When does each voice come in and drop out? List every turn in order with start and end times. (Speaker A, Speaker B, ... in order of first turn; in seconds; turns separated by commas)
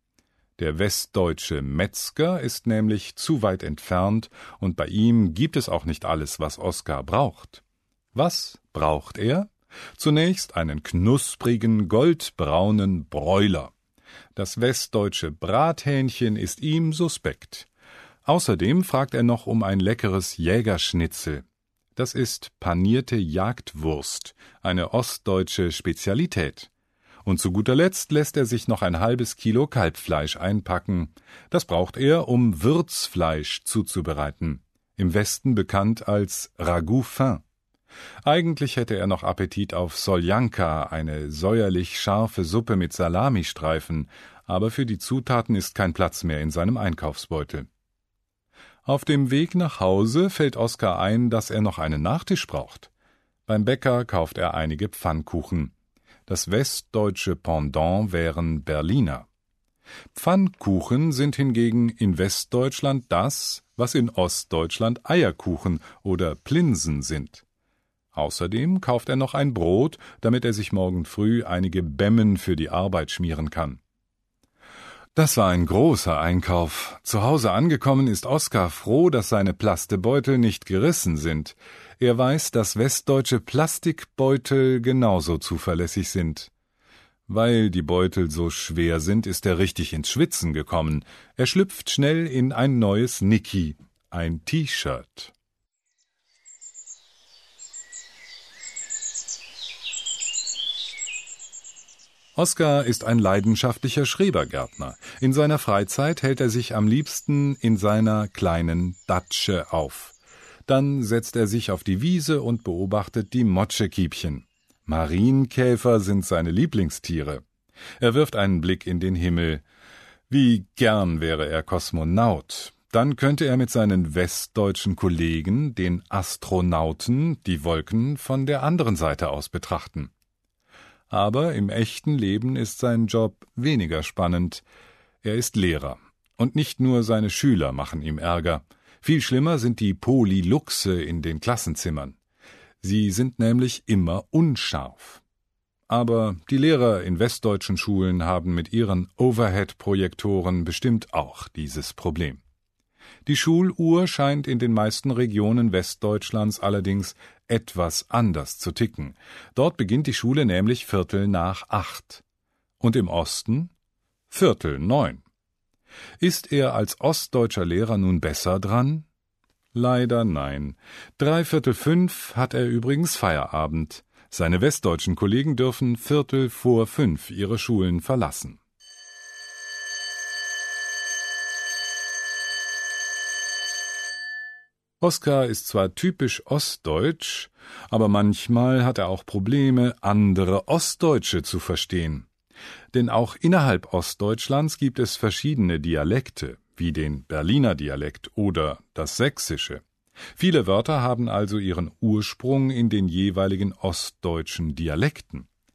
Speaker A: 0.6-7.6, Speaker A: 8.1-13.7, Speaker A: 14.3-17.7, Speaker A: 18.2-26.7, Speaker A: 27.2-37.4, Speaker A: 38.2-47.7, Speaker A: 48.9-52.9, Speaker A: 53.5-55.7, Speaker A: 56.3-59.3, Speaker A: 60.1-67.4, Speaker A: 68.1-73.8, Speaker A: 75.1-86.5, Speaker A: 87.3-95.3, Speaker A: 102.3-110.1, Speaker A: 110.7-117.4, Speaker A: 118.0-119.6, Speaker A: 120.3-130.1, Speaker A: 131.1-134.7, Speaker A: 135.2-142.2, Speaker A: 142.8-145.2, Speaker A: 145.9-152.4, Speaker A: 153.2-162.2, Speaker A: 162.8-163.7, Speaker A: 164.3-165.2, Speaker A: 166.2-169.1, Speaker A: 169.7-178.6, Speaker A: 185.0-192.3, Speaker A: 192.9-199.8, Speaker A: 200.3-205.5